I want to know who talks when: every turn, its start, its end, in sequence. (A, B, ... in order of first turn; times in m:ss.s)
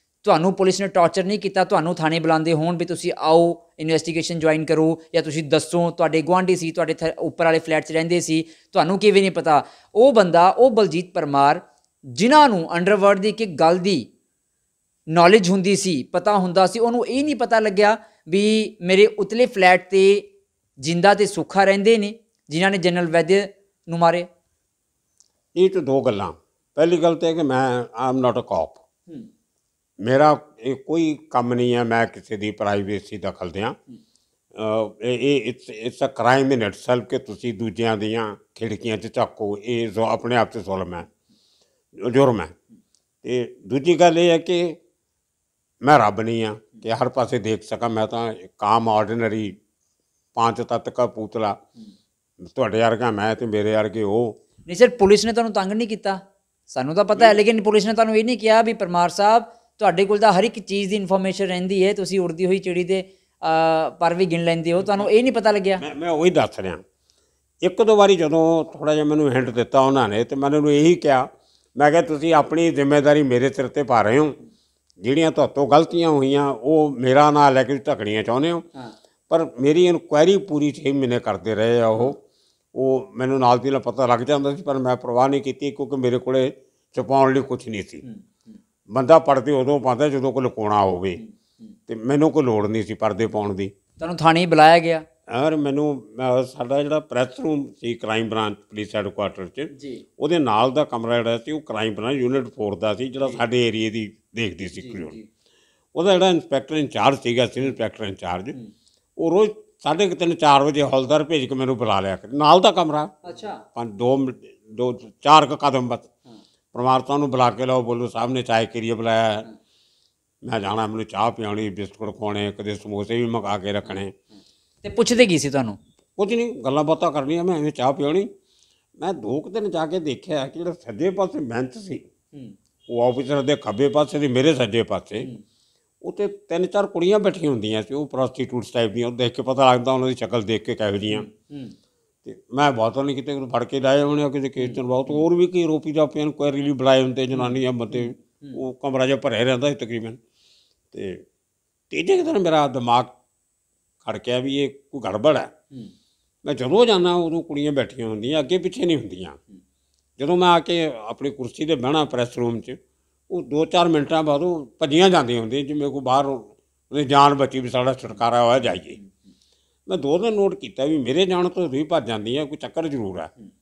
0:00.2-0:14.1 A
0:15.1-0:20.3 A
0:20.8-0:24.3 A
0:25.6-0:28.8 B
0:30.0-0:33.8 B
0:34.5-0:41.1 B
0:42.0-0:42.5 B
0:43.2-0:44.8 B
0:45.8-0:49.6 B
0:50.4-0:51.6 B
0:52.4-0:54.4 B
0:54.7-1:05.8 A
1:05.8-1:06.8 B
1:07.6-1:14.4 B
1:15.0-1:18.6 B
1:19.3-1:22.2 B
1:22.7-1:28.0 B
1:28.9-1:31.2 B
1:31.9-1:33.7 B
1:34.0-1:35.0 A
1:35.3-1:45.2 B
1:39.7-1:40.0 A
1:44.8-1:45.2 A
1:46.0-1:48.6 B
1:49.2-1:53.2 B
1:53.2-1:53.6 A
1:53.7-1:56.1 B
1:56.7-1:59.5 B
2:00.4-2:04.1 B
2:04.8-2:05.8 A
2:06.2-2:08.3 B
2:09.0-2:12.1 B
2:12.9-2:15.3 B
2:16.0-2:21.3 B
2:21.1-2:21.8 A
2:22.2-2:30.2 B
2:24.6-2:25.2 A
2:27.3-2:28.6 A
2:30.9-2:31.2 B
2:31.9-2:33.1 B
2:34.0-2:35.5 B
2:36.4-2:39.4 B
2:40.2-2:42.8 B
2:43.3-2:49.0 B
2:49.9-2:53.3 B